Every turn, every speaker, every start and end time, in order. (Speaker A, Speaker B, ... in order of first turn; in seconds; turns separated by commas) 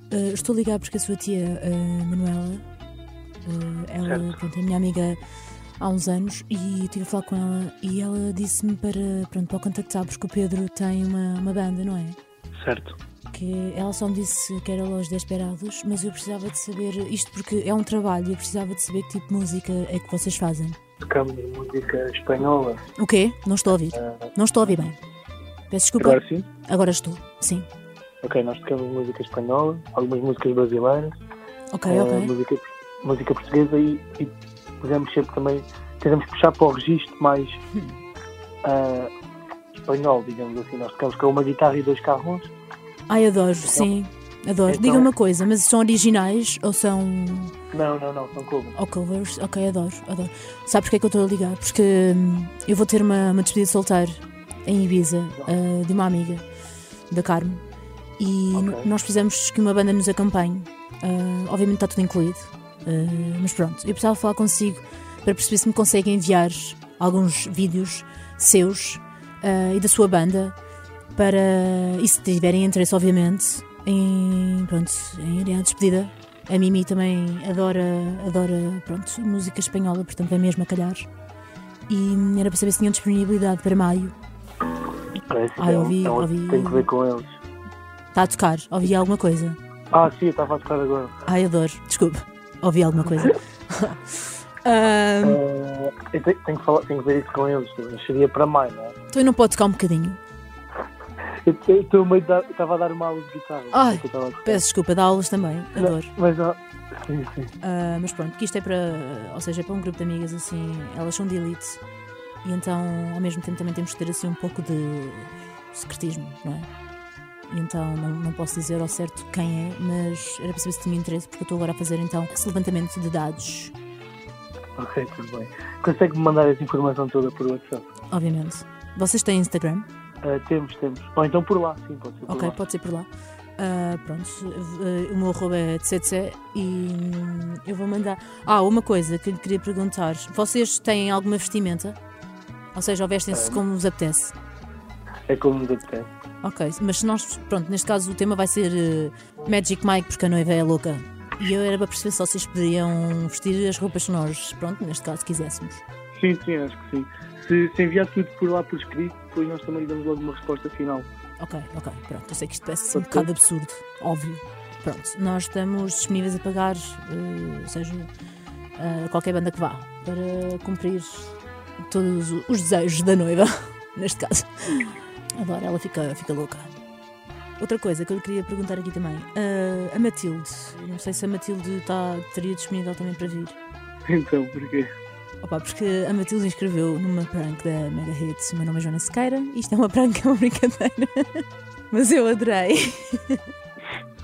Speaker A: 0.1-2.6, Speaker A: 3.5-5.2, Speaker B: 4.0-4.4, Speaker A: 5.8-12.2, Speaker B: 12.6-13.0, Speaker A: 13.3-20.8, Speaker B: 21.0-22.8, Speaker A: 23.0-25.0, Speaker A: 25.7-27.7, Speaker B: 26.0-26.5, Speaker B: 28.2-31.1, Speaker A: 31.7-32.3, Speaker B: 31.9-37.6, Speaker B: 38.6-39.1, Speaker B: 39.9-42.5, Speaker A: 43.1-47.5, Speaker B: 44.7-45.1, Speaker B: 47.7-48.8, Speaker A: 48.8-56.5, Speaker A: 57.1-57.6, Speaker A: 58.2-70.6, Speaker B: 58.5-58.9, Speaker A: 71.2-81.1, Speaker A: 81.9-84.2, Speaker B: 85.3-87.3, Speaker A: 85.6-86.9, Speaker A: 88.1-89.6, Speaker B: 89.9-91.1, Speaker A: 91.3-95.4, Speaker B: 95.2-99.0, Speaker A: 99.1-100.2, Speaker B: 101.4-104.6, Speaker A: 103.7-106.1, Speaker B: 105.8-107.5, Speaker A: 107.6-111.8, Speaker A: 112.4-116.7, Speaker A: 117.5-123.7, Speaker B: 124.8-127.9, Speaker A: 128.1-129.9, Speaker B: 130.2-132.6, Speaker A: 132.3-142.0, Speaker A: 142.8-144.3, Speaker B: 143.3-143.6, Speaker B: 145.3-146.1, Speaker A: 146.4-155.8, Speaker B: 156.2-161.1, Speaker A: 161.4-168.1, Speaker B: 162.9-163.3, Speaker A: 168.8-171.3, Speaker A: 171.9-176.8, Speaker A: 177.6-183.6, Speaker B: 184.1-184.9, Speaker A: 185.4-193.4